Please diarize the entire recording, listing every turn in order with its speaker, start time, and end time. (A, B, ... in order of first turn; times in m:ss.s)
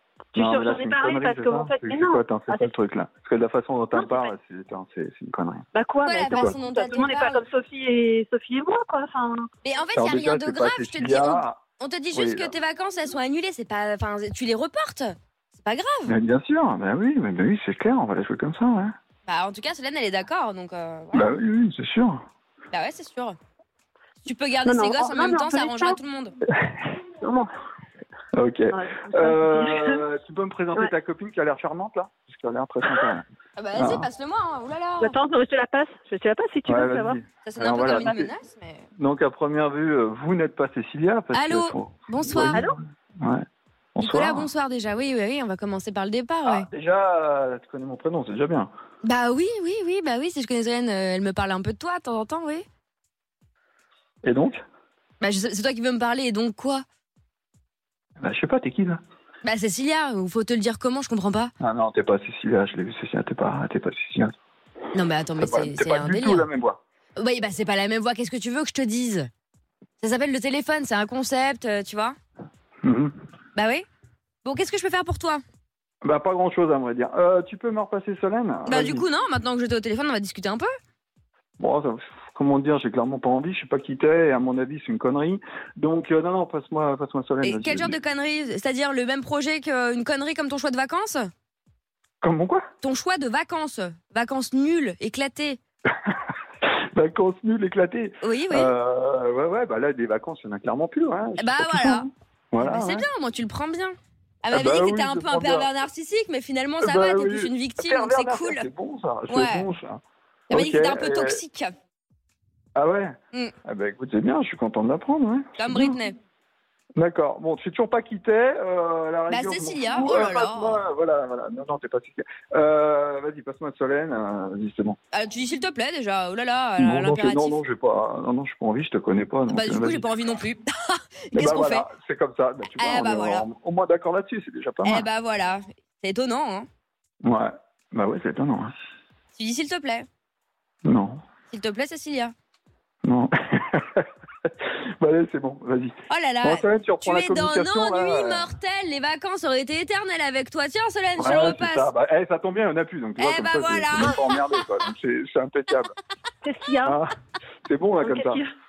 0:00.3-0:02.7 A
0:00.3-0:05.6 B
0:03.9-0:04.4 A
0:05.7-0:09.5 A
0:06.0-0:07.4 C
0:09.6-0:16.1 C
0:09.9-0:11.6 B
0:12.1-0:12.5 B
0:16.0-0:18.9 B
0:19.3-0:21.3 C
0:21.1-0:22.2 B
0:22.7-0:23.4 C
0:24.2-0:26.3 C
0:24.6-0:26.0 A
0:27.2-0:27.5 A
0:28.3-0:34.1 B
0:28.7-0:30.0 A
0:33.6-0:35.1 C
0:35.0-0:37.2 A
0:36.6-0:38.3 B
0:37.4-0:38.8 C
0:39.0-0:43.4 B
0:41.3-0:42.6 C
0:42.5-0:42.8 A
0:44.0-0:44.5 B
0:44.0-0:46.7 C
0:46.4-0:48.7 B
0:49.0-0:52.6 C
0:54.2-0:54.6 B
0:55.2-0:56.8 C
0:58.2-0:59.0 B
0:59.4-1:01.5 C
1:01.6-1:04.3 B
1:04.9-1:06.5 C
1:05.4-1:06.8 B
1:07.2-1:09.3 C
1:10.0-1:12.2 C
1:12.8-1:13.1 B
1:13.6-1:13.8 C
1:14.4-1:15.4 C
1:16.0-1:19.0 B
1:18.6-1:20.7 C
1:21.6-1:28.0 B
1:27.4-1:31.3 C
1:32.2-1:32.6 B
1:32.8-1:35.6 C
1:36.0-1:43.1 B
1:38.2-1:38.7 C
1:41.4-1:48.6 C
1:44.5-1:45.7 B
1:46.8-1:50.0 B
1:49.3-1:49.6 C
1:50.5-1:51.4 B
1:50.5-1:51.7 C
1:52.8-1:56.0 B
1:55.6-1:56.1 C
1:57.0-2:05.0 B
1:59.3-2:00.8 C
2:05.1-2:07.6 C
2:06.8-2:10.1 B
2:09.5-2:11.8 C
2:11.3-2:15.1 B
2:12.7-2:13.4 C
2:14.8-2:16.7 C
2:17.2-2:18.7 B
2:19.4-2:20.0 C
2:20.8-2:21.2 B
2:21.5-2:22.3 C
2:23.0-2:28.5 B
2:26.1-2:31.9 C
2:31.2-2:35.9 B
2:33.2-2:34.4 C
2:36.4-2:37.0 A
2:36.8-2:37.1 B
2:37.6-2:38.4 B
2:38.0-2:38.5 A